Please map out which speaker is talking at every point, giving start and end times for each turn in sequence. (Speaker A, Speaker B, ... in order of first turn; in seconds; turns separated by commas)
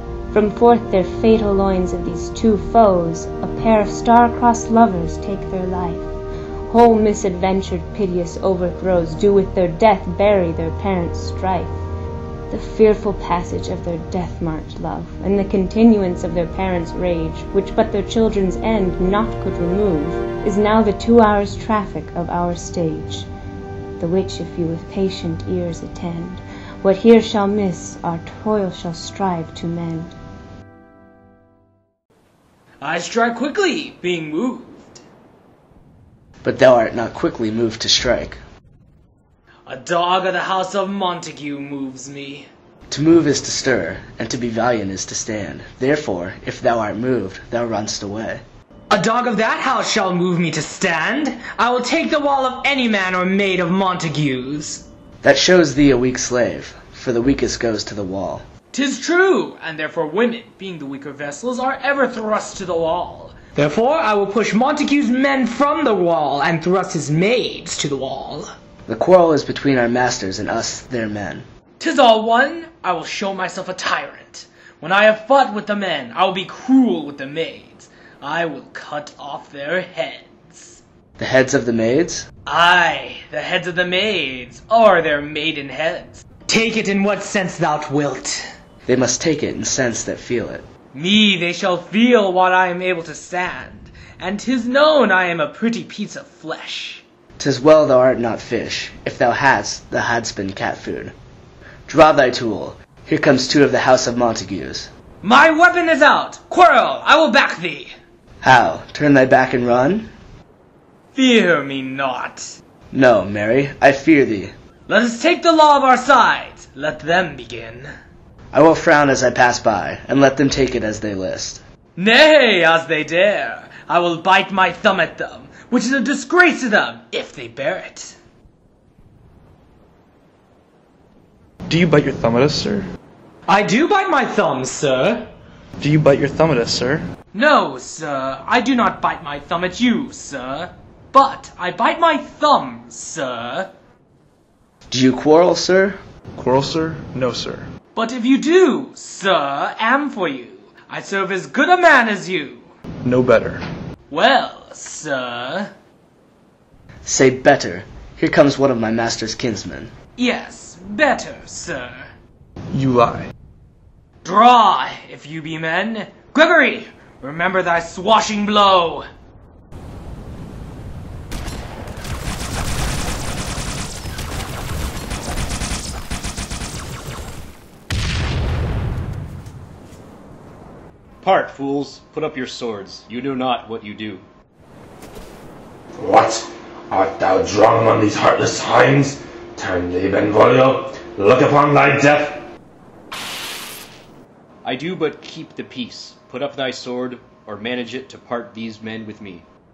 Speaker A: 0.3-6.1, Speaker A: 6.7-11.8, Speaker A: 12.5-23.3, Speaker A: 24.0-30.1, Speaker B: 32.8-35.0, Speaker C: 36.4-38.4, Speaker B: 39.7-42.5, Speaker C: 42.9-48.4, Speaker B: 48.9-54.8, Speaker C: 55.2-58.5, Speaker B: 58.7-68.5, Speaker C: 68.9-71.5, Speaker B: 71.8-80.8, Speaker C: 81.2-82.3, Speaker B: 82.5-88.4, Speaker C: 88.8-90.6, Speaker B: 90.9-97.0, Speaker C: 97.4-101.1, Speaker C: 101.9-104.9, Speaker B: 105.2-107.9, Speaker C: 108.4-110.1, Speaker B: 111.1-112.6, Speaker C: 112.9-114.5, Speaker B: 114.9-117.9, Speaker C: 118.5-121.6, Speaker B: 122.0-128.1, Speaker D: 131.7-132.9, Speaker B: 133.5-135.3, Speaker D: 135.8-137.1, Speaker B: 137.3-143.7, Speaker C: 144.9-146.0, Speaker D: 146.4-147.7, Speaker B: 147.9-152.7, Speaker D: 153.0-153.6, Speaker B: 154.1-155.7, Speaker C: 157.0-159.9, Speaker B: 160.2-162.0, Speaker D: 162.7-163.3, Speaker B: 164.2-169.0, Speaker E: 181.2-184.2, Speaker F: 186.0-192.5, Speaker E: 194.6-199.4